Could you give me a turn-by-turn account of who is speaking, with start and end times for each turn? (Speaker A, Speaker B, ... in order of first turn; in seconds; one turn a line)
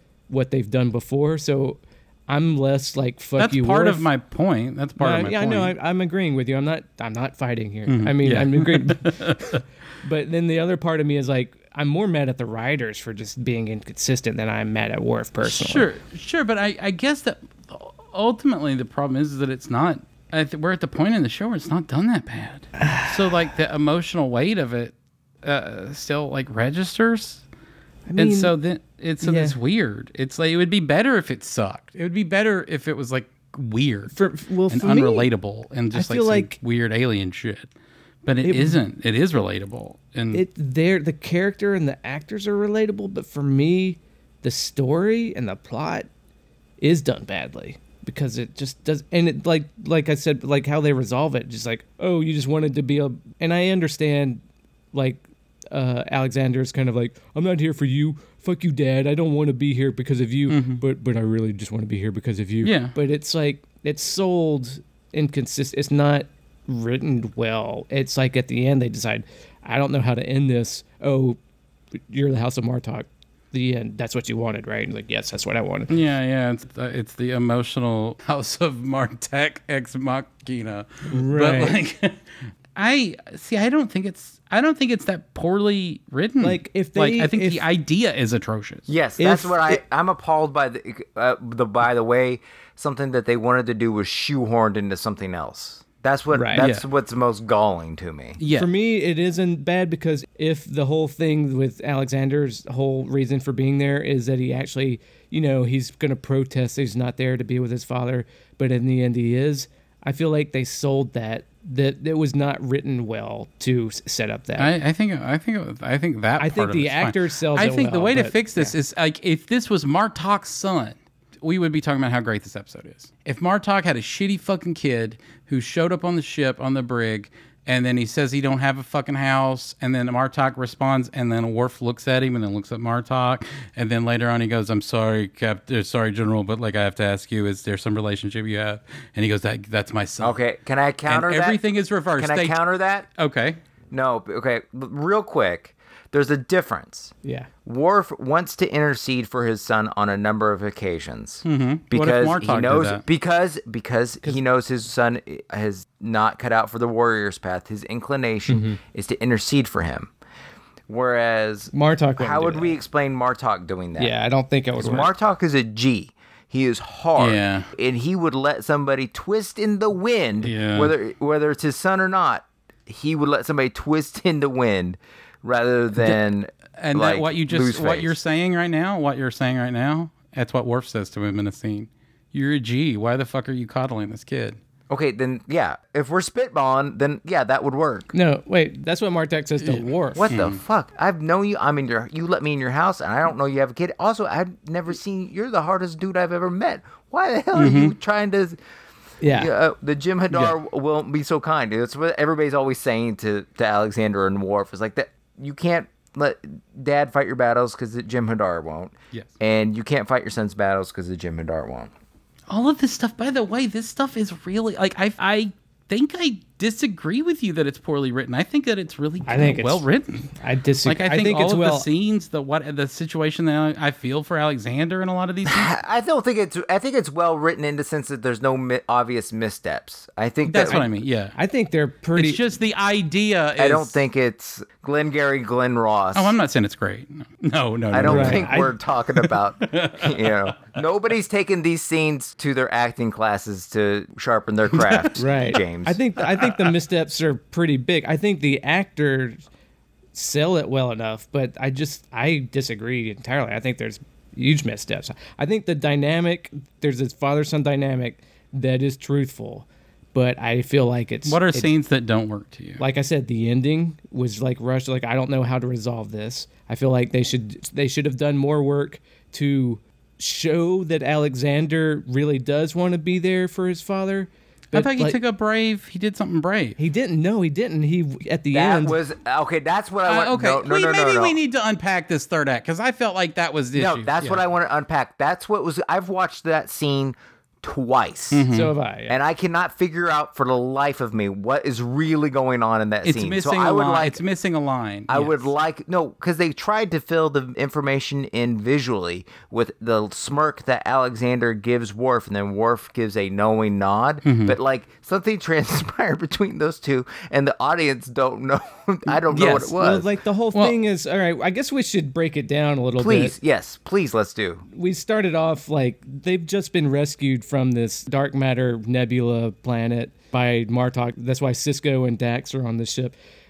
Speaker A: 0.3-4.0
Speaker B: 3.4-5.7
Speaker A: 5.0-15.8
Speaker B: 7.9-9.6
Speaker B: 15.4-27.4
Speaker A: 22.8-23.3
Speaker A: 28.1-28.5
Speaker B: 28.2-34.2
Speaker A: 29.2-29.5
Speaker A: 34.1-35.3
Speaker B: 34.7-37.7
Speaker A: 35.9-36.6
Speaker B: 38.2-40.4
Speaker A: 38.4-38.8
Speaker A: 40.3-46.1
Speaker A: 46.8-54.4
Speaker A: 54.9-71.4
Speaker B: 60.5-60.8
Speaker B: 62.6-62.9
Speaker A: 72.1-75.9
Speaker B: 75.9-82.2
Speaker A: 81.1-81.8
Speaker B: 82.7-88.9
Speaker A: 86.4-87.6
Speaker C: 88.9-98.4
Speaker A: 89.2-89.8
Speaker A: 96.3-96.6
Speaker B: 96.5-96.8
Speaker B: 98.4-98.7
Speaker A: 98.5-114.7
Speaker B: 114.6-140.4
Speaker A: 116.4-118.7
Speaker C: 140.2-141.6
Speaker B: 141.1-142.6
Speaker C: 142.1-143.1
Speaker B: 143.2-143.6
Speaker C: 143.9-147.1
Speaker A: 147.2-147.5
Speaker C: 147.6-160.1
Speaker B: 151.4-153.0
Speaker A: 158.5-158.8
Speaker C: 160.9-164.1
Speaker A: 161.7-162.7
Speaker A: 164.0-165.1
Speaker C: 164.8-178.1
Speaker B: 167.2-167.7
Speaker B: 170.4-170.9
Speaker B: 176.8-184.6
Speaker C: 184.9-188.1
Speaker A: 188.1-190.2
Speaker B: 189.6-190.6
Speaker C: 190.2-198.6
Speaker B: 197.5-197.9
Speaker A: 199.2-199.5
Speaker C: 199.3-211.9
Speaker B: 212.5-220.3
Speaker A: 219.2-219.8
Speaker A: 220.4-221.8
Speaker B: 220.8-225.7
Speaker C: 225.4-230.8
Speaker B: 230.5-231.3
Speaker A: 230.7-232.4
Speaker B: 232.1-234.0
Speaker C: 233.6-236.3
Speaker B: 236.1-240.6
Speaker C: 237.9-246.0
Speaker A: 238.0-238.7
Speaker B: 244.7-245.1
Speaker A: 245.2-249.4
Speaker A: 250.1-261.7
Speaker B: 261.2-262.8
Speaker A: 262.8-275.2
Speaker B: 274.7-276.8
Speaker A: 276.8-279.0
Speaker C: 278.5-281.4
Speaker B: 280.1-284.4
Speaker C: 283.7-288.4
Speaker B: 288.3-288.7
Speaker A: 288.5-289.2
Speaker C: 289.1-294.2
Speaker B: 293.0-295.5
Speaker C: 295.1-310.1
Speaker B: 304.2-304.6
Speaker B: 309.3-309.7
Speaker A: 309.7-313.3
Speaker C: 313.0-314.6
Speaker A: 314.7-323.1